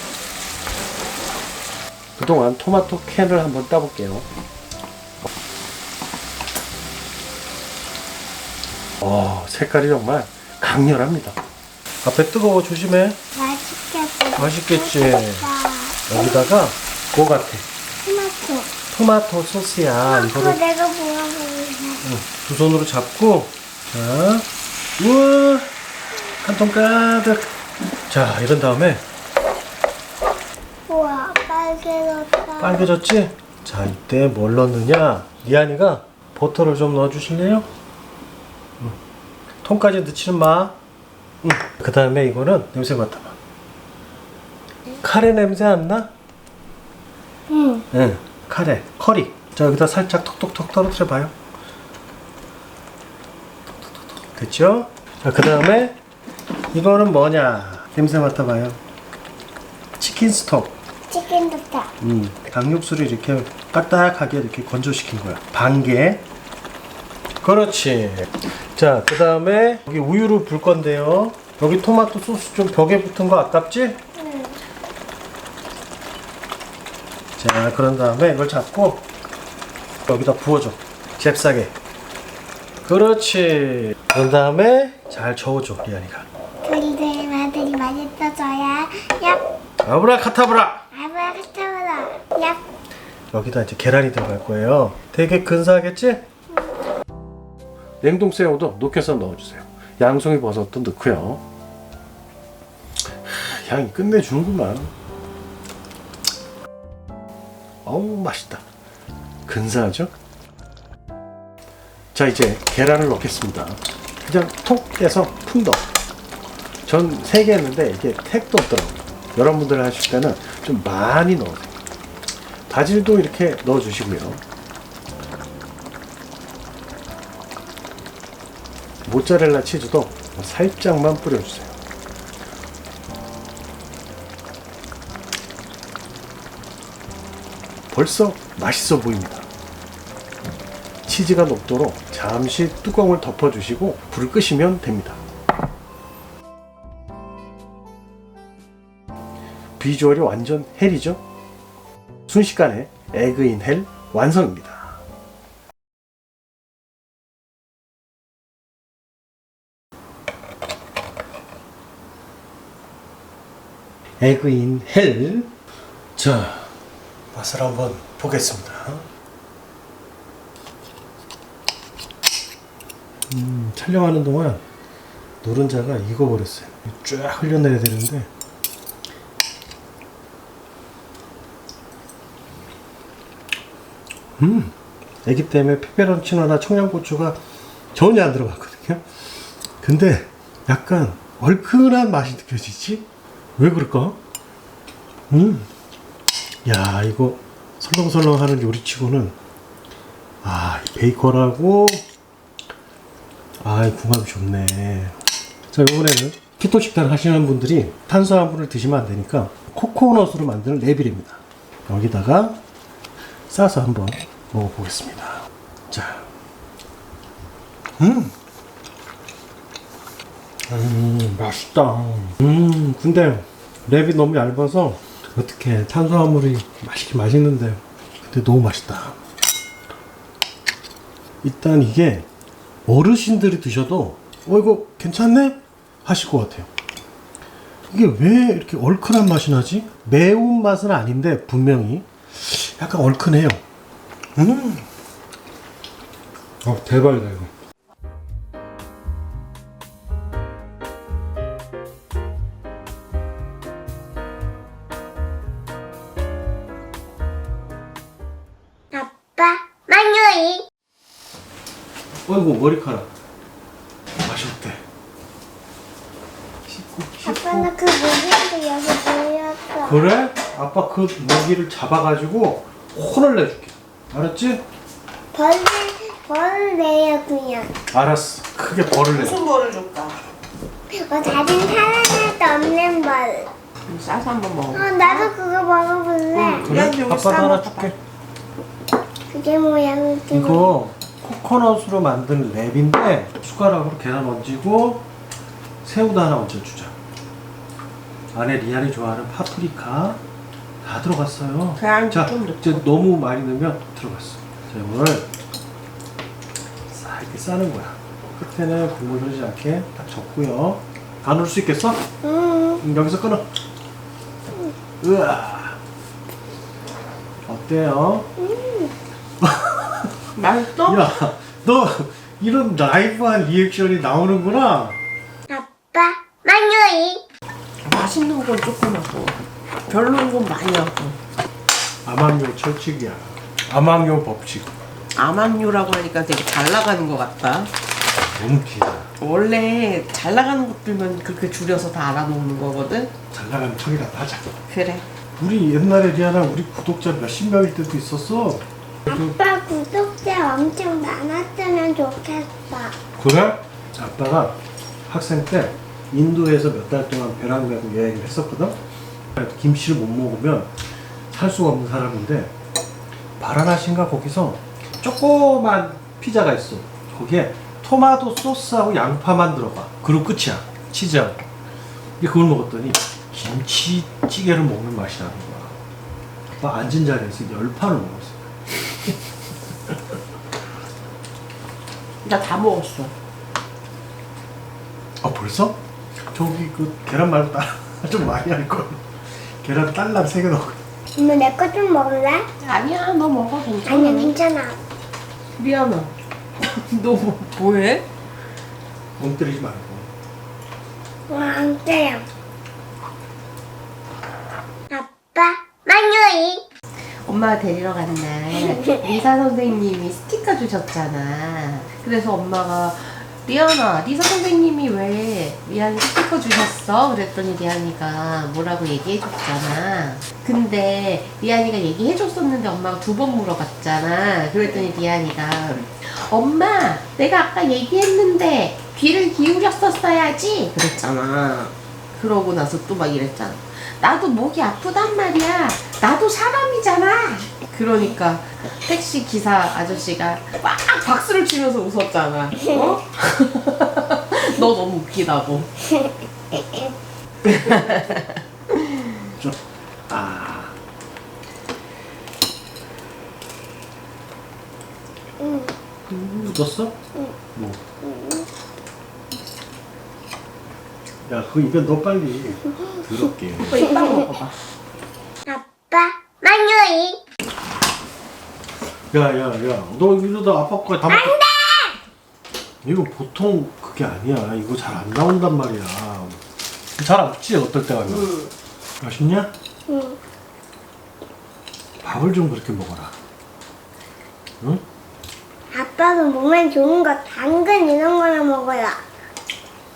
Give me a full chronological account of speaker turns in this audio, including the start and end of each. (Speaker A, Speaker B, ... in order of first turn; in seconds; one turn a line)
Speaker A: 2.2-4.3
Speaker A: 9.0-11.4
Speaker A: 12.0-13.2
Speaker B: 13.3-16.6
Speaker A: 14.4-15.5
Speaker A: 16.1-17.7
Speaker B: 18.0-18.7
Speaker A: 18.9-20.6
Speaker B: 20.0-22.0
Speaker A: 22.0-25.7
Speaker A: 26.4-27.5
Speaker A: 28.1-29.0
Speaker B: 30.9-32.9
Speaker A: 32.6-37.7
Speaker A: 39.6-40.8
Speaker A: 41.4-43.4
Speaker A: 45.0-46.1
Speaker B: 47.5-47.9
Speaker A: 47.9-51.3
Speaker A: 54.4-56.0
Speaker A: 56.7-58.8
Speaker A: 60.0-60.8
Speaker B: 61.1-61.9
Speaker A: 62.0-66.2
Speaker A: 67.4-74.0
Speaker B: 74.2-74.5
Speaker A: 77.4-79.1
Speaker A: 80.1-81.7
Speaker A: 82.8-86.3
Speaker B: 86.6-89.4
Speaker A: 89.8-90.8
Speaker B: 90.9-92.6
Speaker A: 93.3-96.3
Speaker A: 98.0-101.4
Speaker A: 103.3-104.9
Speaker A: 107.8-108.7
Speaker A: 109.5-110.1
Speaker A: 112.1-115.9
Speaker A: 116.9-121.8
Speaker A: 122.7-124.4
Speaker A: 129.1-131.8
Speaker A: 137.9-139.5
Speaker A: 141.1-145.2
Speaker A: 149.8-151.2
Speaker A: 152.3-155.0
Speaker A: 164.2-165.5
Speaker A: 166.2-166.8
Speaker A: 167.3-169.1
Speaker A: 173.3-174.6
Speaker A: 175.4-178.3
Speaker A: 184.4-187.4
Speaker A: 187.9-189.1
Speaker A: 189.8-193.1
Speaker A: 193.6-194.2
Speaker A: 195.3-195.7
Speaker A: 196.7-199.4
Speaker A: 200.4-202.0
Speaker A: 203.6-205.2
Speaker A: 205.7-212.6
Speaker A: 213.5-216.3
Speaker A: 218.0-218.3
Speaker A: 220.7-229.2
Speaker A: 231.4-232.3
Speaker A: 232.9-236.7
Speaker A: 237.9-243.6
Speaker A: 244.4-244.9
Speaker A: 246.6-247.5
Speaker B: 258.9-260.6
Speaker A: 262.3-263.1
Speaker A: 264.2-264.8
Speaker A: 266.7-267.7
Speaker B: 267.2-270.0
Speaker A: 269.8-274.6
Speaker B: 275.3-277.7
Speaker A: 277.9-279.4
Speaker C: 279.2-280.2
Speaker B: 280.9-283.5
Speaker C: 283.9-285.3
Speaker B: 284.7-286.7
Speaker C: 286.3-287.9
Speaker A: 286.6-287.9
Speaker B: 289.3-290.8
Speaker A: 290.3-295.1
Speaker A: 295.8-296.9
Speaker A: 298.3-300.2
Speaker A: 300.8-305.3
Speaker C: 301.8-302.9
Speaker A: 306.9-312.1
Speaker B: 312.2-312.8
Speaker A: 312.8-313.5
Speaker A: 315.0-315.8
Speaker A: 317.5-318.3
Speaker B: 318.4-318.9
Speaker A: 319.4-320.3
Speaker C: 320.4-321.1
Speaker A: 320.8-325.0
Speaker B: 325.5-327.2
Speaker C: 327.8-331.2
Speaker A: 332.1-334.8
Speaker C: 335.2-337.7
Speaker A: 338.3-339.1
Speaker C: 339.2-343.1
Speaker A: 343.3-344.5
Speaker C: 344.7-345.1
Speaker A: 345.4-349.3
Speaker B: 349.1-353.0
Speaker A: 353.2-358.8
Speaker A: 359.4-360.7
Speaker A: 361.3-362.5
Speaker A: 363.4-371.4
Speaker A: 372.2-375.8
Speaker A: 376.6-379.1
Speaker C: 382.2-383.1
Speaker A: 385.2-385.8
Speaker A: 386.3-390.8
Speaker B: 391.2-392.5
Speaker C: 392.6-394.4
Speaker B: 393.9-394.8
Speaker C: 395.6-398.1
Speaker A: 399.2-400.1
Speaker B: 401.3-402.3
Speaker B: 404.9-406.6
Speaker C: 407.2-445.9
Speaker B: 408.7-409.0
Speaker A: 447.4-448.0
Speaker C: 447.5-449.1
Speaker A: 449.4-450.8
Speaker B: 455.4-455.7
Speaker C: 456.1-456.5
Speaker A: 456.3-457.0
Speaker A: 457.6-457.8
Speaker B: 458.0-458.5
Speaker A: 461.3-463.8
Speaker C: 463.7-464.6
Speaker B: 463.8-464.2
Speaker B: 465.5-467.2
Speaker A: 469.1-471.4
Speaker B: 471.1-472.0
Speaker A: 472.8-476.4
Speaker A: 477.0-478.4
Speaker A: 479.0-479.5
Speaker B: 479.9-480.2
Speaker A: 482.0-483.1
Speaker B: 485.7-489.0